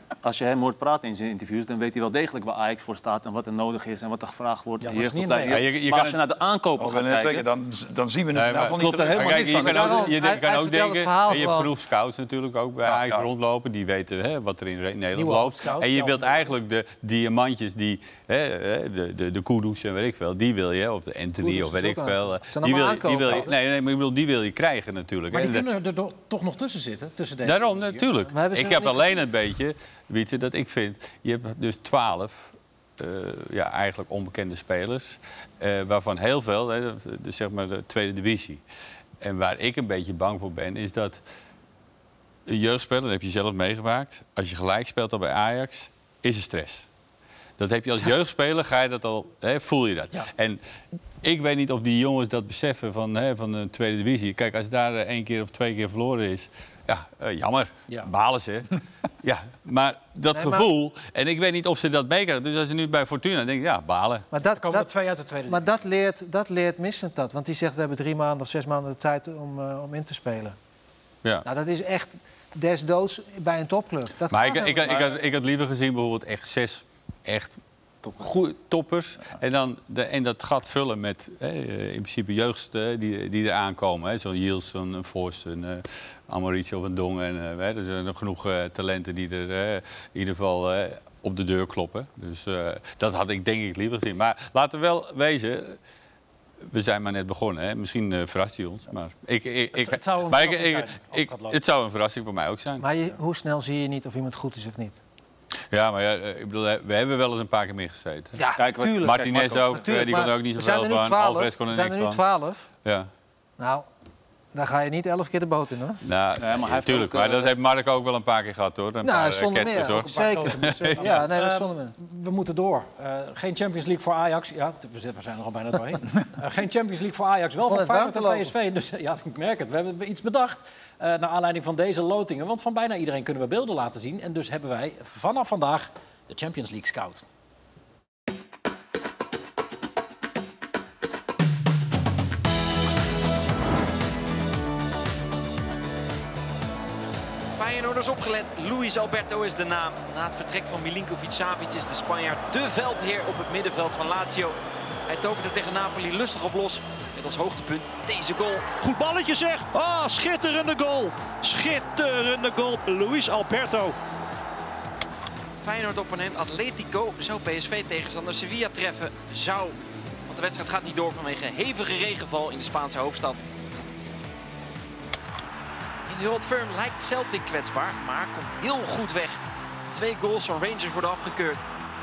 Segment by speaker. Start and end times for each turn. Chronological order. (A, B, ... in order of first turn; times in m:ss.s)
0:00.2-0:07.5 A
0:04.8-0:05.6 B
0:05.5-0:06.2 C
0:06.8-0:10.1 D
0:08.4-0:25.7 C
0:08.8-0:09.6 A
0:09.5-0:11.7 E
0:12.8-0:13.3 D
0:15.1-0:16.5 B
0:21.4-0:23.5 E
0:25.3-0:28.1 B
0:27.4-0:38.6 C
0:28.3-0:29.2 E
0:39.2-0:41.2 C
0:42.5-0:46.9 C
0:47.6-0:50.6 C
0:51.2-0:58.7 C
0:59.2-1:04.3 C
1:00.3-1:00.7 E
1:04.3-1:04.9 E
1:04.6-1:05.7 B
1:05.5-1:10.6 E
1:11.4-1:15.2 E
1:14.3-1:17.6 C
1:18.1-1:35.8 C
1:36.7-1:42.8 C
1:39.7-1:41.6 B
1:42.8-1:45.0 E
1:45.7-1:48.4 C
1:48.4-1:52.7 E
1:48.6-1:49.9 A
1:49.0-1:52.2 C
1:53.6-1:53.9 E
1:54.5-1:56.0 E
1:56.0-2:01.2 C
1:56.4-1:57.5 A
1:59.0-2:01.9 E
1:59.7-2:17.2 B
2:07.6-2:08.5 E
2:27.6-2:34.6 F
2:35.1-2:38.8 F
2:38.8-2:44.0 G
2:45.6-2:53.5 F
2:56.1-2:59.4 F
2:59.9-3:01.6 F